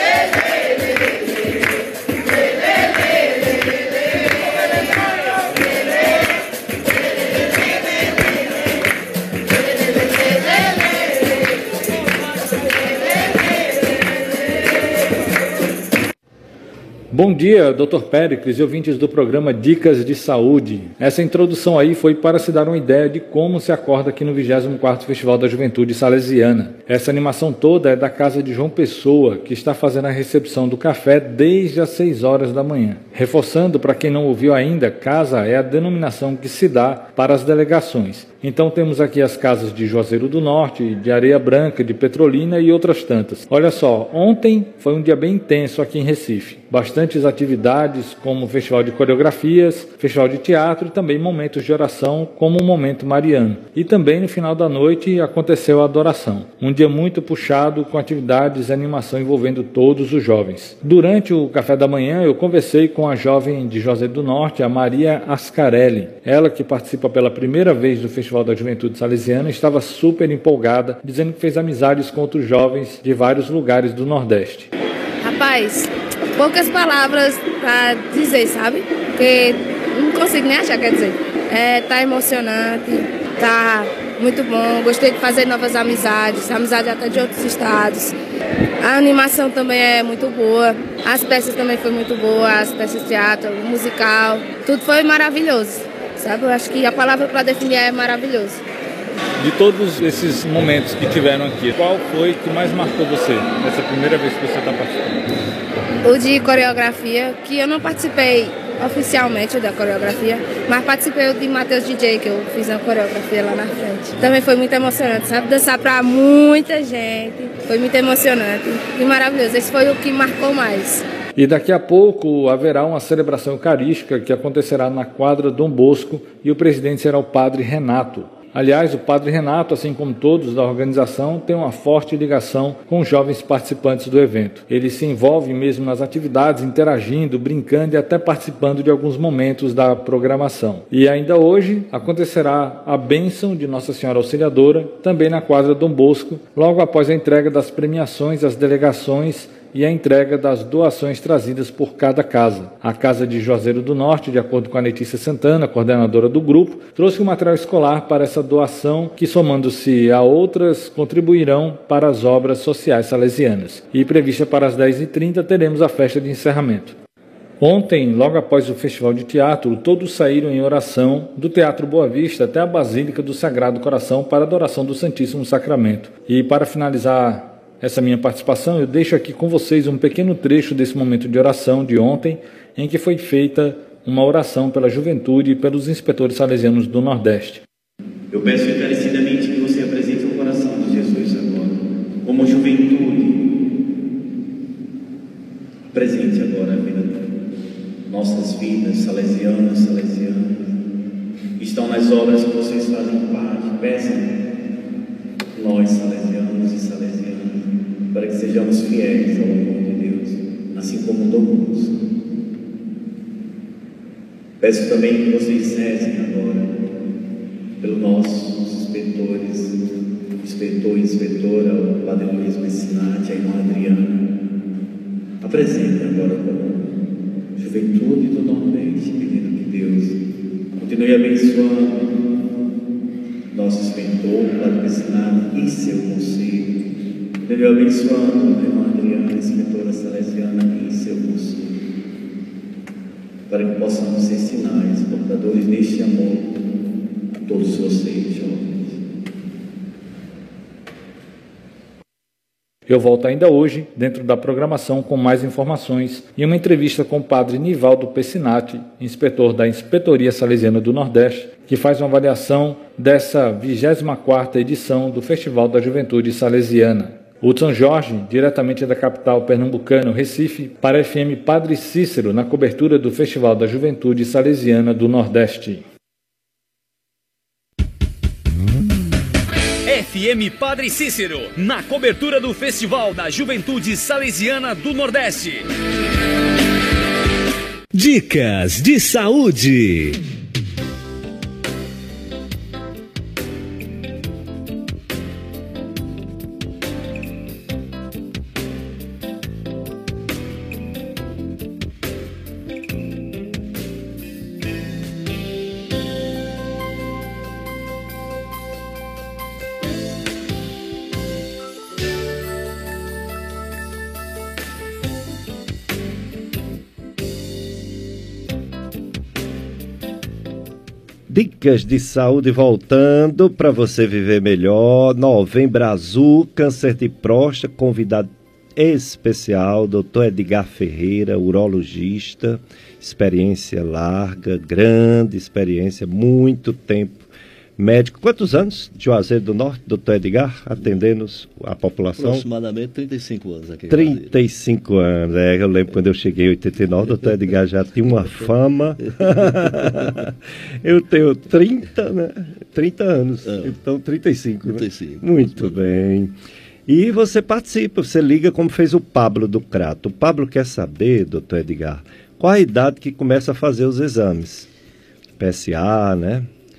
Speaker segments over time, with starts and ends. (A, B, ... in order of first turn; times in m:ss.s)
0:17.1-1:14.7 A
1:15.2-1:28.1 B
1:28.8-1:38.6 B
1:39.4-1:45.2 A
1:46.0-2:01.0 B
2:01.4-2:46.9 A
2:47.6-3:07.6 A
3:08.3-3:13.4 C
3:15.9-3:17.2 C
3:18.1-3:20.6 C
3:21.6-3:24.3 C
3:25.5-3:32.0 C
3:34.6-3:36.7 C
3:37.8-3:39.8 C
3:40.4-3:44.2 C
3:45.4-3:47.0 C
3:47.6-3:50.2 C
3:50.8-3:52.4 C
3:53.5-3:56.7 C
3:57.4-4:01.7 C
4:03.5-4:06.5 C
4:07.4-4:09.0 C
4:12.9-4:35.8 A
4:39.8-4:45.6 D
4:47.9-4:50.2 E
5:21.3-5:37.2 F
5:37.8-5:42.4 F
5:42.2-5:44.3 G
5:43.9-5:56.3 F
5:49.3-5:50.1 G
5:53.4-5:53.8 G
5:54.6-5:55.8 G
5:56.9-6:04.7 F
6:05.4-6:06.5 F